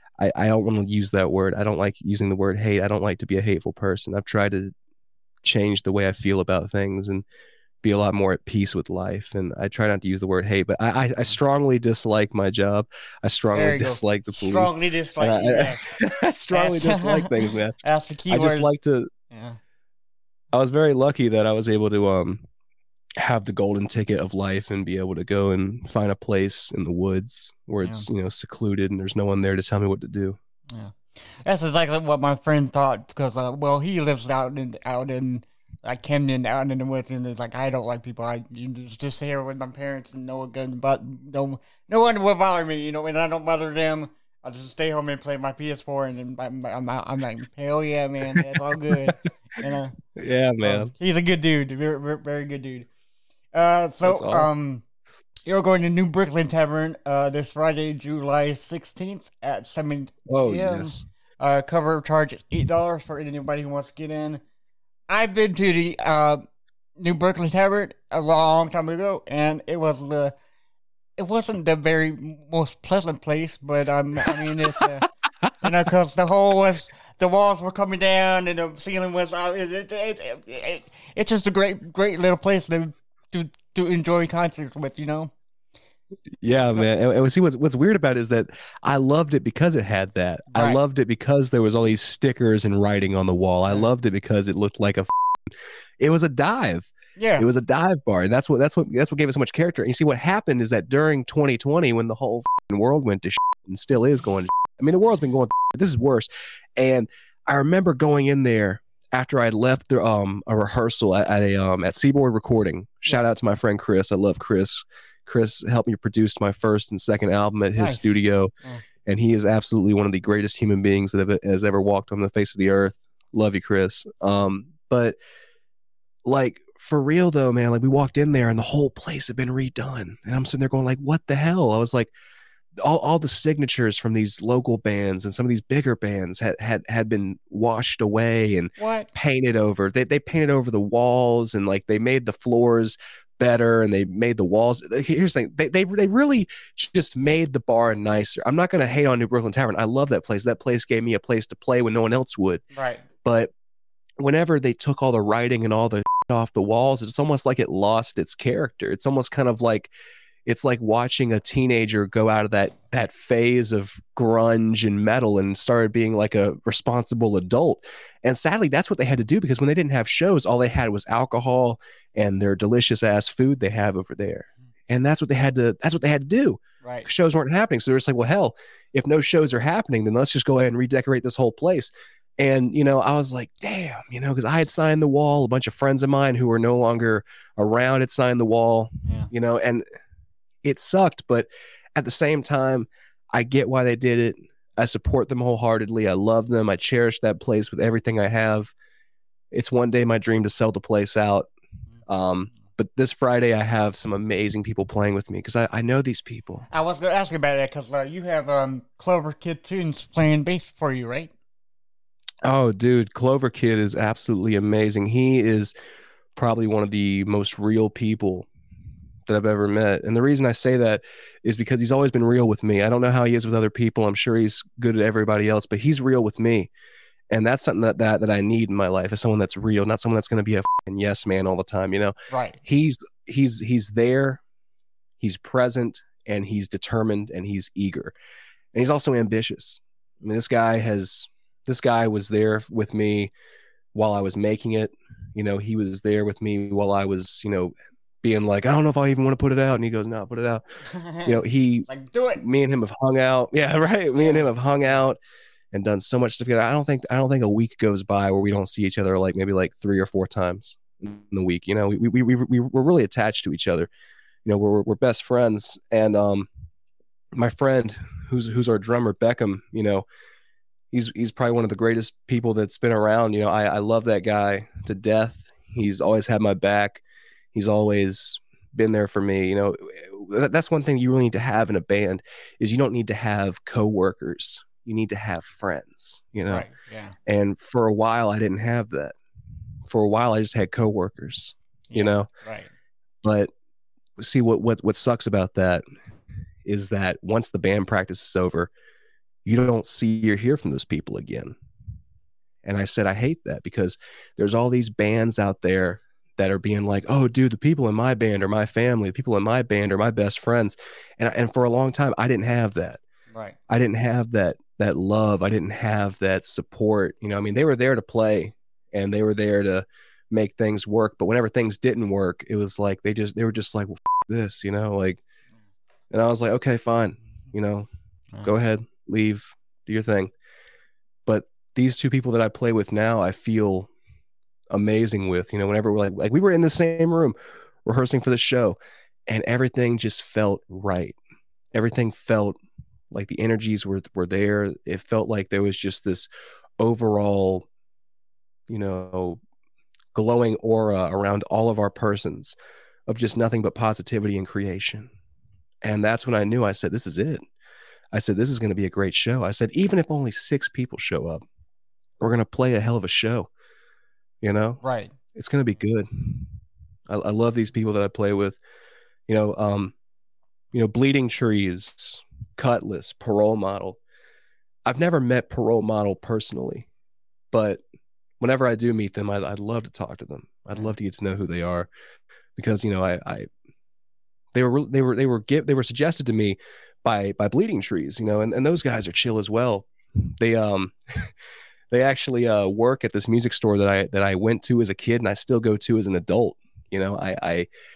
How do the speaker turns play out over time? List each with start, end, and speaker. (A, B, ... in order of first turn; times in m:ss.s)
0:00.2-0:04.7 A
0:05.4-0:07.2 A
0:07.8-0:17.8 A
0:13.5-0:16.0 B
0:16.5-0:18.7 B
0:18.3-0:19.1 A
0:19.3-0:19.6 B
0:20.5-0:22.4 A
0:23.2-0:30.4 A
0:30.7-0:50.0 B
0:50.1-0:50.9 A
0:50.6-0:52.9 B
0:53.5-0:54.8 B
0:54.0-0:54.5 A
0:55.4-1:04.4 B
1:00.3-1:01.0 A
1:05.1-1:06.4 B
1:07.0-1:10.3 B
1:11.2-1:15.1 B
1:15.6-1:25.3 B
1:26.4-1:58.5 A
1:30.5-1:30.8 B
1:37.2-1:37.4 B
1:57.7-1:58.8 B
1:59.0-2:05.2 A
2:06.2-2:12.1 A
2:12.8-2:32.6 A
2:18.8-2:19.1 B
2:32.7-2:33.0 B
2:33.2-2:33.5 A
2:34.2-2:39.9 A
2:40.4-3:09.8 A
2:56.8-2:57.1 B
3:10.6-3:18.7 A
3:19.5-3:21.5 A
3:22.1-3:26.6 A
3:26.7-3:31.3 B
3:32.4-3:35.7 A
3:36.4-3:38.5 A
3:39.3-3:46.7 A
3:47.3-3:54.4 A
3:52.3-3:52.6 B
3:55.2-3:58.1 A
3:58.7-4:03.3 A
4:03.9-4:10.6 A
4:10.9-4:12.4 B
4:11.2-4:15.2 A
4:14.2-4:14.9 B
4:15.7-4:23.9 A
4:24.4-4:26.5 A
4:27.3-4:30.0 A
4:30.9-4:46.7 A
4:46.4-4:47.2 B
4:47.3-4:49.1 A
4:49.8-4:52.3 A
4:51.9-4:52.7 B
4:53.2-4:53.5 A
4:54.2-4:55.8 A
4:56.6-4:58.7 A
4:59.4-5:01.6 A
5:02.6-5:13.0 A
5:13.3-5:13.6 B
5:13.7-5:25.2 A
5:26.1-5:27.9 A
5:28.4-5:30.3 A
5:31.2-5:33.9 A
5:34.7-5:41.2 A
5:41.7-5:42.6 A
5:43.1-5:46.3 A
5:46.8-5:47.6 A
5:48.7-5:49.4 A
5:50.1-5:52.5 A
5:53.1-5:55.1 A
5:55.8-5:57.4 A
5:58.1-6:01.4 A
6:02.2-6:03.5 A
6:04.4-6:04.8 A
6:04.8-6:05.1 B
6:05.3-6:06.5 A
6:07.1-6:08.6 A
6:09.3-6:09.9 A
6:10.7-6:14.0 A
6:14.8-6:16.9 A
6:17.5-6:17.8 A
6:18.4-6:21.9 A
6:22.6-6:23.5 A
6:24.5-6:31.3 A
6:31.9-6:37.7 A